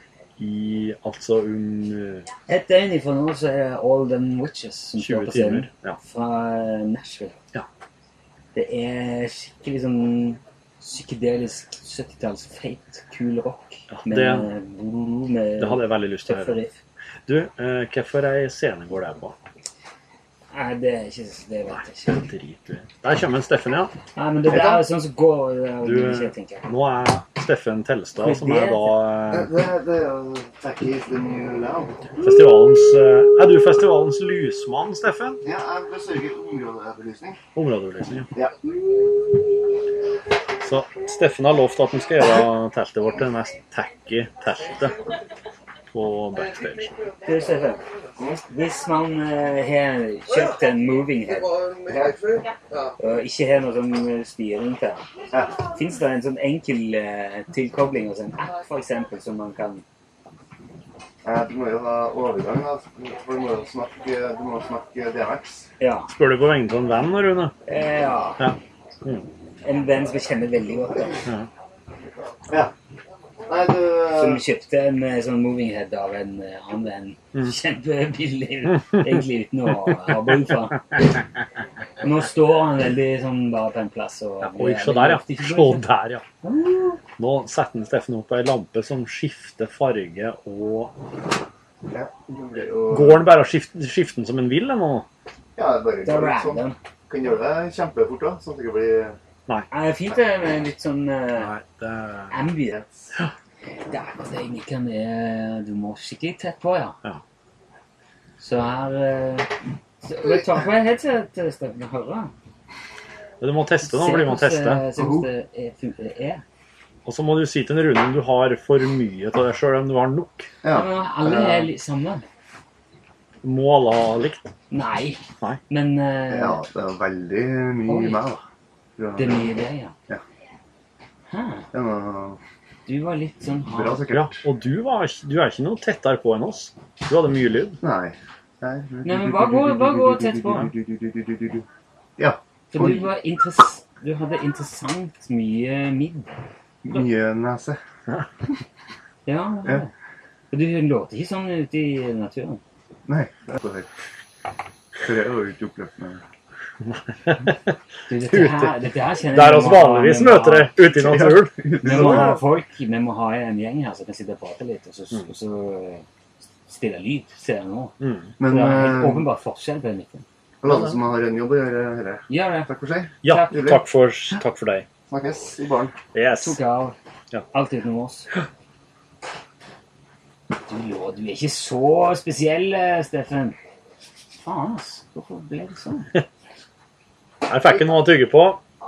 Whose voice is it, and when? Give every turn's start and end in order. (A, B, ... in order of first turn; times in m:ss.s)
0:00.4-0:02.3 A
0:02.5-0:07.4 B
0:05.0-0:06.0 A
0:08.5-0:16.8 B
0:13.9-0:14.5 A
0:15.6-0:16.6 A
0:17.3-0:19.4 A
0:20.5-0:22.2 B
0:21.7-0:24.0 A
0:24.2-0:26.7 B
0:25.8-0:29.5 A
0:28.1-0:29.0 B
0:29.3-0:32.0 C
0:32.2-0:35.4 A
0:35.4-0:37.4 C
0:37.5-0:38.3 A
0:40.6-0:45.0 A
0:45.9-0:47.0 A
0:47.2-0:47.8 B
0:48.5-0:51.6 B
0:51.8-0:52.5 C
0:53.0-0:59.8 B
0:55.3-0:55.6 C
1:01.2-1:05.7 C
1:05.8-1:06.1 B
1:06.1-1:07.5 A
1:07.6-1:08.5 B
1:08.4-1:09.3 A
1:09.6-1:11.3 B
1:13.5-1:14.4 C
1:14.1-1:21.0 B
1:22.0-1:25.9 B
1:24.4-1:26.2 A
1:26.4-1:27.0 B
1:27.2-1:30.9 A
1:31.9-1:33.3 C
1:32.9-1:35.0 A
1:35.6-1:39.2 C
1:36.0-1:36.8 B
1:39.7-1:41.5 B
1:41.4-1:42.3 A
1:42.3-1:42.8 B
1:42.7-1:43.1 C
1:43.9-1:47.0 B
1:48.4-1:52.3 B
1:53.4-1:54.9 A
1:53.8-1:56.4 B
1:54.9-1:55.3 C
1:57.0-2:00.5 A
2:00.6-2:01.7 C
2:00.7-2:02.3 B
2:03.4-2:04.5 A
2:04.7-2:06.6 B
2:06.3-2:08.4 C
2:07.8-2:08.4 B
2:09.0-2:09.6 C
2:09.2-2:09.9 B
2:11.3-2:11.7 B
2:11.7-2:12.4 C
2:12.9-2:14.1 B
2:13.7-2:14.4 C
2:14.1-2:17.8 A
2:17.8-2:21.6 C
2:19.0-2:20.7 B
2:22.2-2:23.1 C
2:22.7-2:26.3 B
2:26.8-2:27.8 C
2:29.2-2:29.9 B
2:30.5-2:32.6 B
2:33.1-2:33.9 C
2:35.0-2:36.2 C
2:36.8-2:37.8 A
2:38.1-2:40.8 B
2:38.3-2:38.7 A
2:39.3-2:42.4 A
2:40.9-2:42.4 C
2:41.8-2:46.0 B
2:46.6-2:50.2 B
2:48.0-2:48.3 A
2:48.4-2:49.3 C
2:50.6-2:53.8 C
2:50.6-2:50.9 A
2:52.3-2:52.7 B
2:53.2-2:54.8 A
2:53.2-2:53.6 B
2:55.1-2:56.0 C
2:56.1-2:56.6 A
2:56.4-2:57.0 B
2:57.5-2:58.3 B
3:00.6-3:03.6 B
3:04.4-3:06.1 B
3:07.5-3:08.6 A